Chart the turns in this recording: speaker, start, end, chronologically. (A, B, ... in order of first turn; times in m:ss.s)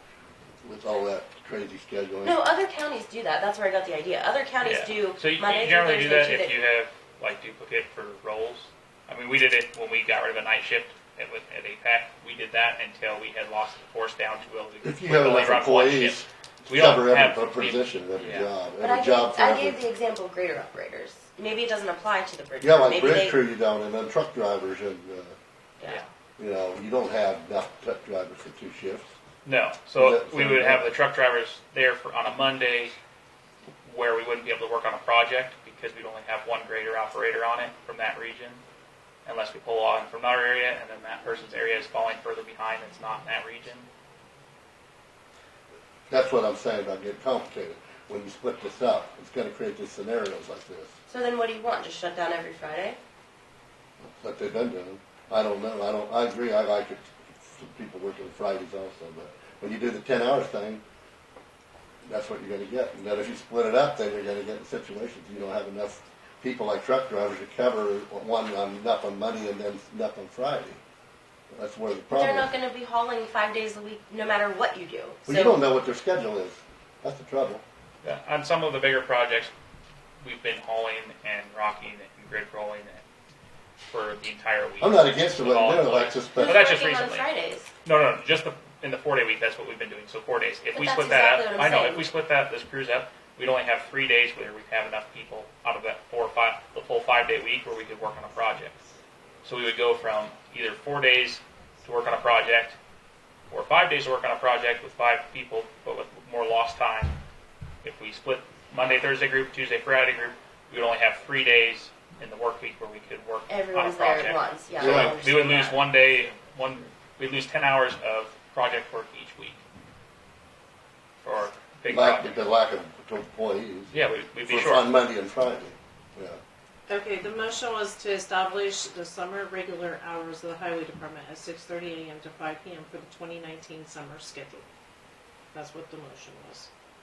0:00.6-0:02.3 A
0:02.2-0:06.6 B
0:04.6-0:18.5 C
0:14.8-0:19.8 A
0:18.8-0:23.4 B
0:22.6-0:25.3 A
0:26.4-0:29.1 A
0:29.4-0:32.9 C
0:30.0-0:30.9 A
0:33.8-0:38.6 C
0:39.2-0:43.9 C
0:46.1-0:50.9 A
0:51.1-0:53.0 B
0:54.0-1:00.8 A
1:02.0-1:10.8 A
1:11.5-1:12.5 A
1:12.1-1:15.6 B
1:15.2-1:17.6 A
1:18.0-1:19.5 C
1:20.2-1:23.0 C
1:23.9-1:27.2 C
1:24.8-1:26.6 A
1:26.4-1:27.7 B
1:27.8-1:38.8 C
1:30.7-1:32.1 B
1:39.4-1:42.8 C
1:43.5-1:47.2 C
1:47.8-1:59.6 C
1:53.5-1:55.8 B
1:54.8-1:55.2 A
2:01.2-2:02.4 C
2:01.9-2:03.9 A
2:03.9-2:04.9 C
2:04.5-2:06.4 A
2:06.9-2:14.6 D
2:15.5-2:16.7 D